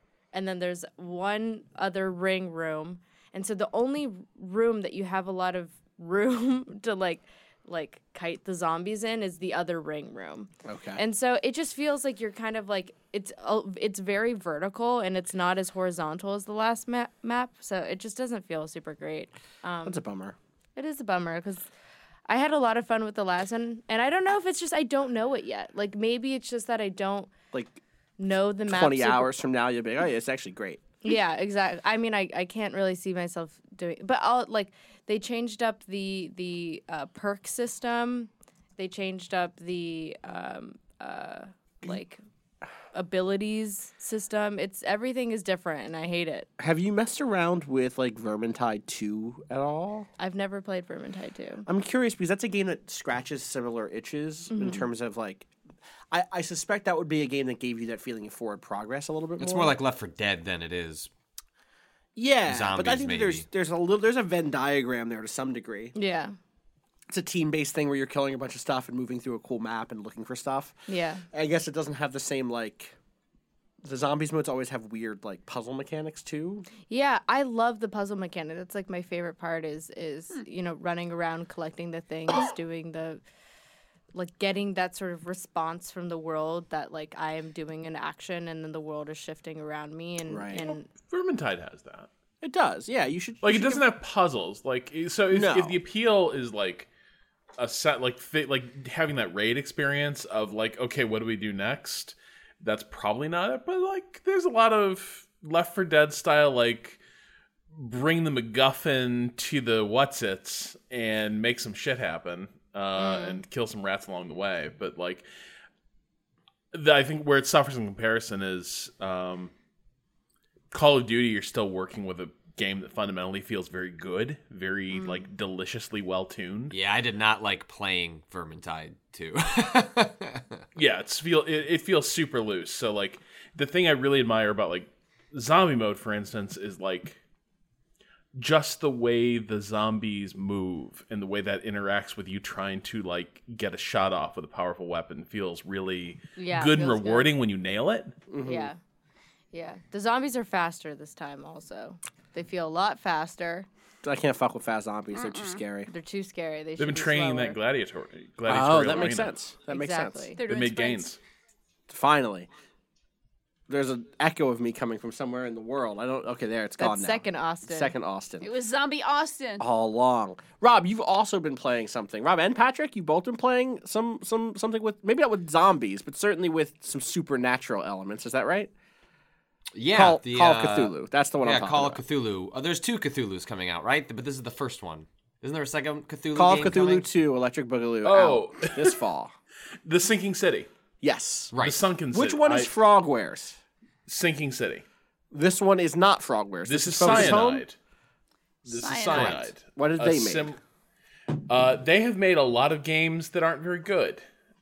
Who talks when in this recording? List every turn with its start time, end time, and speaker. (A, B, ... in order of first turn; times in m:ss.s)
0:00.3-0:20.0 A
0:10.6-0:11.0 B
0:19.8-0:20.4 B
0:20.8-0:21.7 A
0:22.3-0:27.3 A
0:27.5-0:27.8 B
0:28.2-0:29.4 A
0:28.7-0:30.8 B
0:31.0-0:42.2 A
0:42.9-0:46.5 A
0:46.6-0:50.1 B
0:50.2-0:51.7 A
0:51.7-0:55.5 B
0:54.5-0:54.9 A
0:56.1-0:59.7 B
0:59.4-1:01.1 C
1:02.2-1:06.0 B
1:02.5-1:03.5 C
1:06.0-1:06.4 A
1:07.1-1:10.8 B
1:10.9-1:11.2 A
1:11.3-1:13.0 B
1:13.8-1:16.7 B
1:16.9-1:23.2 A
1:24.1-1:30.9 A
1:30.3-1:30.7 B
1:31.0-1:32.1 D
1:32.4-1:33.8 B
1:33.4-1:36.9 D
1:35.3-1:35.8 B
1:37.6-1:47.0 D
1:47.7-1:55.3 D
1:53.0-1:53.4 A
1:56.7-1:59.5 D
2:00.7-2:06.8 D
2:06.7-2:10.6 C
2:10.8-2:17.2 D
2:18.4-2:28.2 D
2:26.4-2:27.3 A
2:28.3-2:28.7 B
2:28.4-2:28.8 A
2:29.5-2:33.7 A
2:34.0-2:35.9 B
2:35.1-2:35.6 E
2:35.9-2:37.6 A
2:36.8-2:39.4 D
2:38.5-2:40.3 B
2:39.7-2:40.4 A
2:40.4-2:41.1 E
2:40.4-2:41.2 D
2:41.9-2:42.5 B
2:43.7-2:48.5 B
2:46.8-2:48.0 A
2:48.4-2:49.6 E
2:49.6-2:58.7 B
2:59.7-3:07.1 C
2:59.9-3:02.0 B
3:06.4-3:09.3 B
3:08.0-3:09.0 D
3:09.8-3:10.7 D
3:11.0-3:11.5 B
3:11.5-3:11.8 C
3:11.6-3:12.7 D
3:12.1-3:13.6 B
3:14.1-3:14.8 D
3:15.3-3:17.6 B
3:16.7-3:17.8 D
3:17.1-3:17.4 C
3:18.6-3:20.6 D
3:18.7-3:19.5 E
3:19.1-3:19.4 C
3:19.8-3:20.5 B
3:21.5-3:24.2 D